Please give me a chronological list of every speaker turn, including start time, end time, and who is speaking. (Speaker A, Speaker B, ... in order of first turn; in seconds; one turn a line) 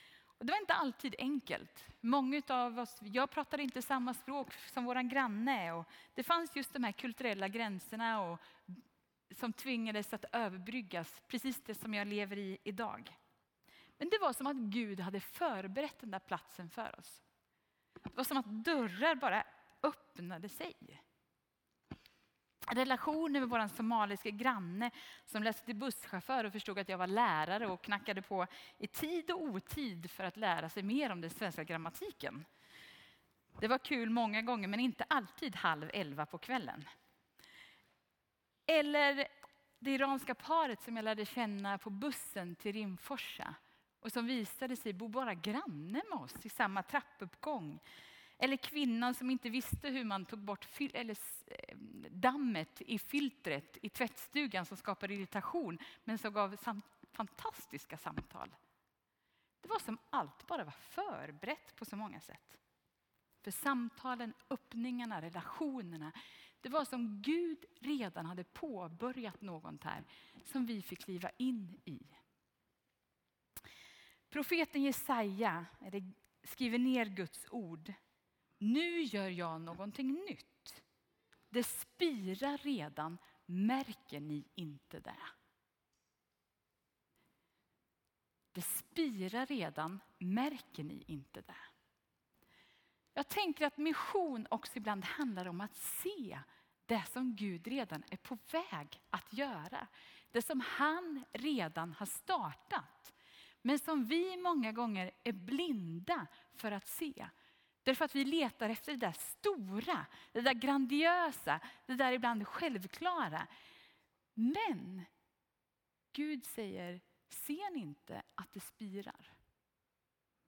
Speaker A: 0.4-13.2
Speaker A: 14.0-17.2
Speaker A: 18.1-21.0
Speaker A: 22.7-32.5
Speaker A: 33.6-36.9
Speaker A: 38.7-47.8
Speaker A: 48.4-58.6
Speaker A: 59.6-62.6
Speaker A: 63.4-72.1
Speaker A: 74.3-78.0
Speaker A: 78.6-80.8
Speaker A: 81.5-85.3
Speaker A: 88.5-91.7
Speaker A: 93.2-107.3
Speaker A: 107.8-113.5
Speaker A: 114.3-115.1
Speaker A: 116.1-119.3